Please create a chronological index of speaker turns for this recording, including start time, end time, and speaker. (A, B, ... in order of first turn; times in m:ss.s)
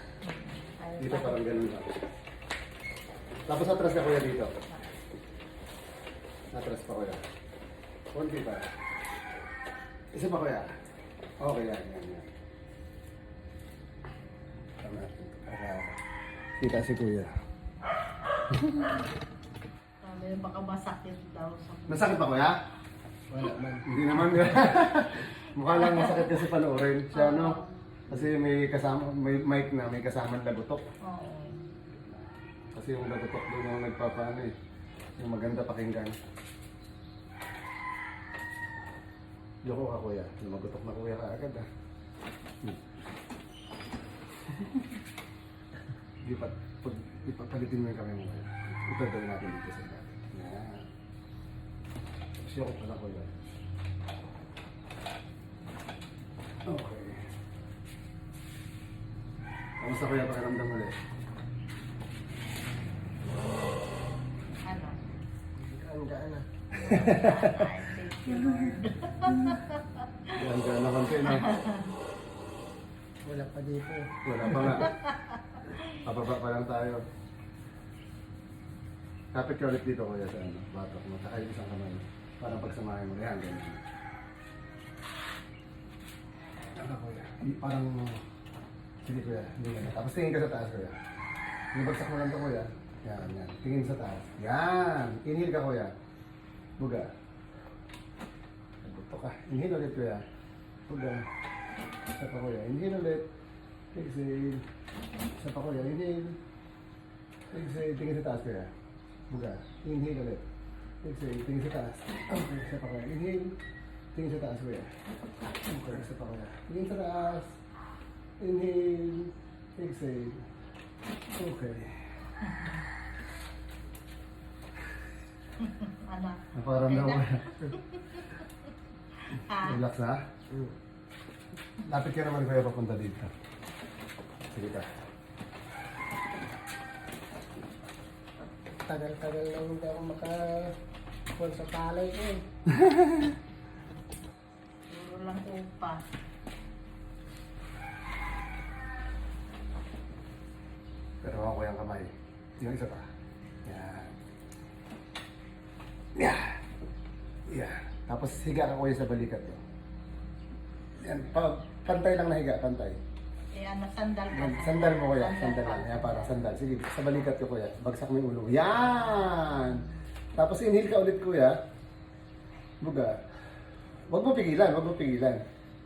0:00.2-0:01.5 A
0:01.0-0:01.9 B
0:03.5-0:04.5 B
0:04.7-0:05.0 A
0:06.5-0:07.2 B
0:08.1-0:08.7 B
0:10.1-0:10.7 B
0:11.4-0:12.3 B
0:14.8-0:16.0 B
0:16.6-0:17.3 B
0:18.5-0:19.0 B
0:20.0-0:22.2 A
0:21.9-0:22.6 B
0:23.3-0:24.5 C
0:23.8-0:30.8 B
0:25.7-0:26.3 A
0:27.1-0:27.7 A
0:31.0-0:31.6 A
0:31.9-0:34.5 B
0:35.2-0:36.2 B
0:39.6-0:41.7 B
0:44.4-0:45.0 B
0:46.2-0:50.9 B
0:52.4-0:53.5 B
0:56.6-0:57.3 B
0:59.8-1:01.0 B
1:04.6-1:05.0 A
1:05.6-1:06.5 C
1:06.8-1:10.4 A
1:06.8-1:07.7 B
1:09.2-1:09.6 B
1:10.3-1:11.5 B
1:11.2-1:11.9 A
1:13.2-1:14.8 C
1:14.2-1:14.9 B
1:14.6-1:16.0 A
1:16.0-1:17.0 B
1:19.3-1:23.9 B
1:26.7-1:28.2 B
1:29.0-1:31.0 B
1:31.7-1:35.9 B
1:36.8-1:37.1 B
1:38.8-1:40.2 B
1:40.9-1:41.3 B
1:42.1-1:43.3 B
1:43.9-1:44.6 B
1:45.4-1:46.4 B
1:47.5-1:48.7 B
1:49.3-1:50.4 B
1:51.0-1:53.6 B
1:54.1-1:54.9 B
1:55.6-1:57.5 B
1:58.4-2:00.5 B
2:01.3-2:02.0 B
2:02.4-2:02.8 A
2:05.6-2:08.5 A
2:06.5-2:07.7 B
2:09.2-2:09.8 A
2:09.6-2:10.3 B
2:10.5-2:10.7 C
2:11.8-2:13.3 B
2:14.5-2:14.9 B
2:18.8-2:20.7 C
2:21.3-2:22.4 C
2:22.7-2:23.3 B
2:24.9-2:26.0 A
2:31.2-2:33.1 B
2:33.6-2:34.1 B
2:36.1-2:36.6 B
2:37.5-2:39.6 B
2:41.0-2:43.0 B
2:43.5-2:46.4 A
2:44.3-2:51.6 B
2:52.8-2:53.2 B
2:54.1-2:55.4 B